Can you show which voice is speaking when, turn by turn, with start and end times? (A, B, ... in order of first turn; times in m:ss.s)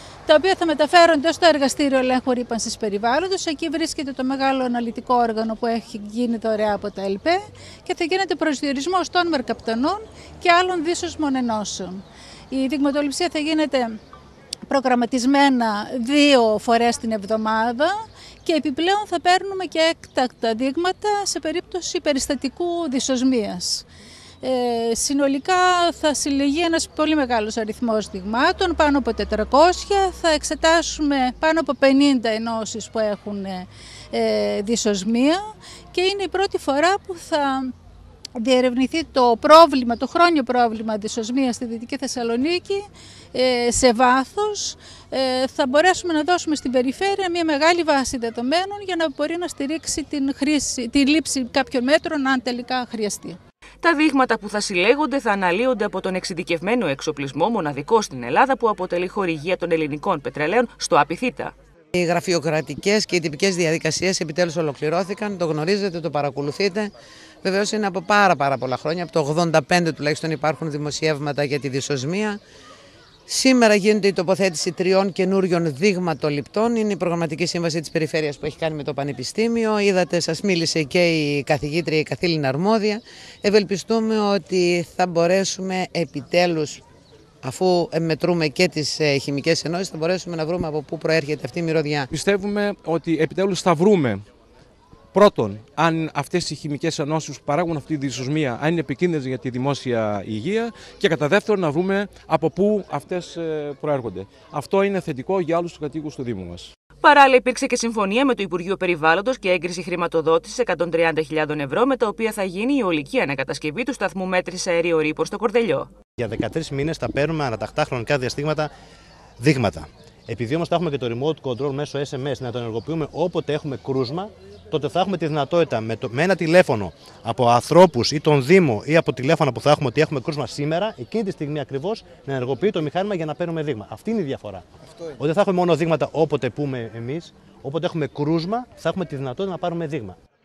0:00.3-0:14.0 A
0:14.7-0:23.9 A
0:24.4-0:35.4 A
0:35.9-0:37.7 A
0:38.4-0:53.4 A
0:53.8-1:01.5 B
1:02.0-1:06.9 C
1:07.4-1:12.4 C
1:13.3-1:26.8 C
1:27.4-1:32.1 C
1:32.1-1:34.2 D
1:35.1-1:46.7 D
1:47.0-1:55.9 B
1:56.2-1:58.7 E
1:59.4-2:14.6 E
2:15.2-2:20.2 E